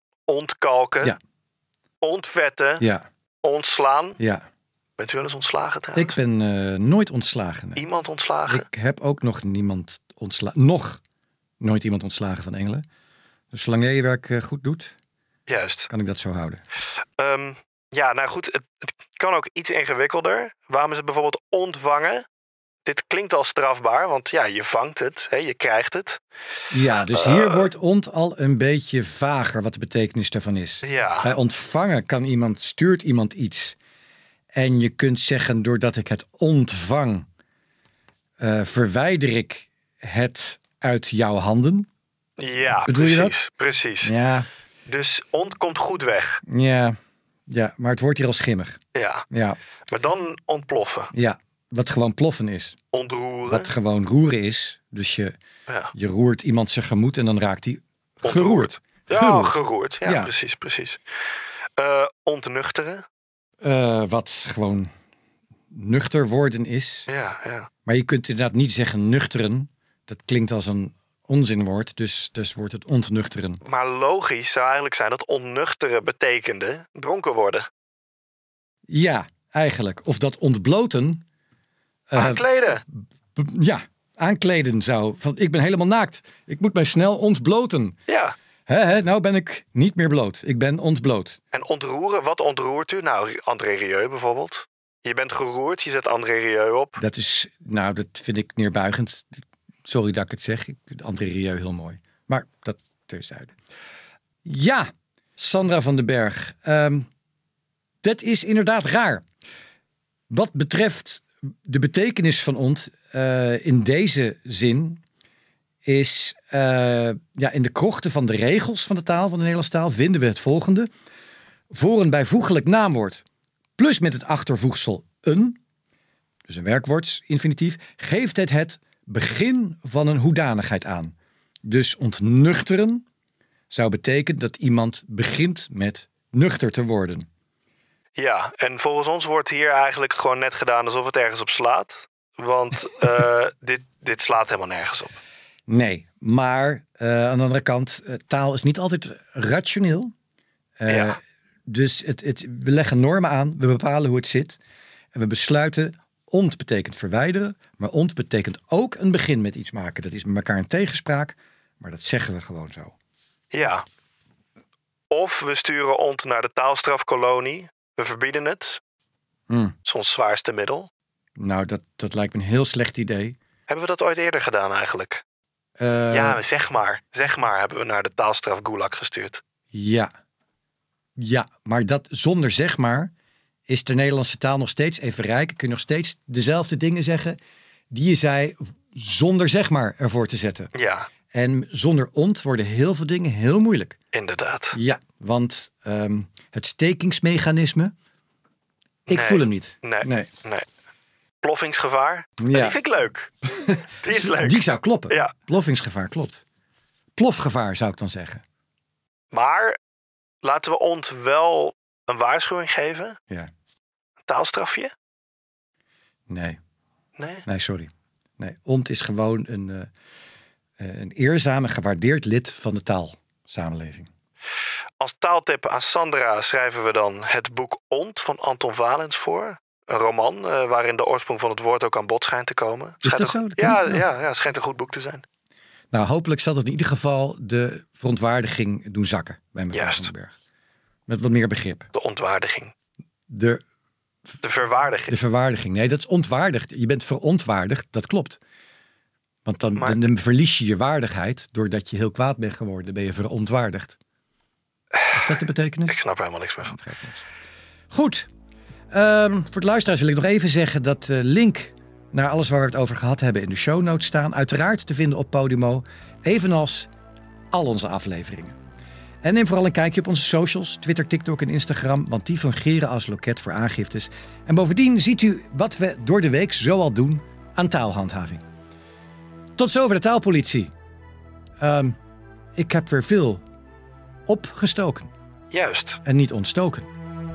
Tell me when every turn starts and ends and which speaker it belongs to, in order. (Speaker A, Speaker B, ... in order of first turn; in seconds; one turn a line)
Speaker A: 0.3-1.1
Speaker A: 2.0-2.8
Speaker B: 2.8-3.0
Speaker A: 3.4-4.2
Speaker B: 4.2-4.4
Speaker A: 5.0-6.2
Speaker B: 5.9-7.8
Speaker A: 7.8-8.7
Speaker B: 8.5-11.0
Speaker B: 11.6-12.8
Speaker B: 13.5-14.9
Speaker A: 15.5-15.9
Speaker B: 15.9-16.6
Speaker A: 17.2-22.2
Speaker A: 22.9-26.2
Speaker B: 26.7-33.8
Speaker A: 27.1-27.6
Speaker A: 30.8-31.3
Speaker B: 34.5-37.3
Speaker B: 38.4-41.9
Speaker A: 42.4-44.1
Speaker B: 42.8-43.3
Speaker B: 44.0-44.5
Speaker A: 44.9-46.4
Speaker B: 46.5-46.9
Speaker B: 47.5-48.8
Speaker A: 48.9-49.2
Speaker B: 49.3-49.6
Speaker A: 49.9-51.1
Speaker B: 51.1-52.8
Speaker A: 52.9-53.7
Speaker B: 53.5-55.4
Speaker A: 55.7-55.9
Speaker B: 55.9-60.3
Speaker A: 58.2-61.0
Speaker A: 61.8-63.0
Speaker B: 63.6-64.9
Speaker B: 65.7-67.1
Speaker A: 67.1-67.7
Speaker B: 67.8-73.6
Speaker A: 73.6-77.7
Speaker B: 78.9-81.2
Speaker B: 82.1-82.4
Speaker A: 82.1-82.8
Speaker B: 83.3-88.0
Speaker A: 88.1-88.3
Speaker B: 88.7-91.4
Speaker A: 91.5-97.0
Speaker B: 97.0-103.5
Speaker B: 104.4-107.1
Speaker B: 108.0-109.2
Speaker B: 110.3-115.0
Speaker B: 115.8-120.9
Speaker B: 121.7-123.2
Speaker B: 123.8-125.6
Speaker B: 126.5-131.1
Speaker B: 131.6-133.0
Speaker B: 133.7-137.3
Speaker A: 138.2-145.2
Speaker B: 145.7-150.1
Speaker B: 150.8-154.6
Speaker A: 150.9-151.2
Speaker B: 155.1-162.9
Speaker A: 163.5-163.8
Speaker A: 165.1-168.8
Speaker B: 169.5-169.7
Speaker A: 169.8-170.9
Speaker B: 171.4-173.4
Speaker A: 173.7-175.2
Speaker B: 175.8-176.4
Speaker A: 176.1-179.4
Speaker B: 179.7-180.1
Speaker B: 181.2-183.1
Speaker B: 183.7-187.4
Speaker B: 187.9-190.7
Speaker A: 190.7-191.1
Speaker B: 191.3-193.9
Speaker A: 194.1-194.8
Speaker B: 194.7-197.9
Speaker B: 199.1-200.3
Speaker A: 199.1-200.6
Speaker A: 201.4-203.3
Speaker B: 202.4-202.8
Speaker B: 203.4-206.4
Speaker A: 204.0-205.3
Speaker B: 207.2-208.4
Speaker A: 209.3-209.8
Speaker A: 210.4-213.2
Speaker A: 214.2-214.9
Speaker B: 216.3-216.6
Speaker A: 217.2-217.4
Speaker B: 217.4-219.9
Speaker B: 220.8-224.1
Speaker A: 225.0-235.2
Speaker B: 233.0-234.0
Speaker B: 235.9-240.3
Speaker A: 239.7-240.1
Speaker B: 241.1-241.9
Speaker A: 241.9-242.7
Speaker B: 243.3-243.6
Speaker A: 244.4-245.2
Speaker B: 245.1-248.4
Speaker B: 249.4-254.0
Speaker A: 249.8-250.1
Speaker B: 255.1-256.0
Speaker A: 255.9-256.8
Speaker B: 256.6-257.2
Speaker B: 257.9-258.3
Speaker B: 258.9-266.9
Speaker B: 267.5-268.5
Speaker B: 269.2-278.4
Speaker B: 279.6-280.7
Speaker B: 281.6-281.9
Speaker B: 282.6-283.4
Speaker B: 284.3-285.1
Speaker A: 285.5-286.0
Speaker B: 286.0-286.9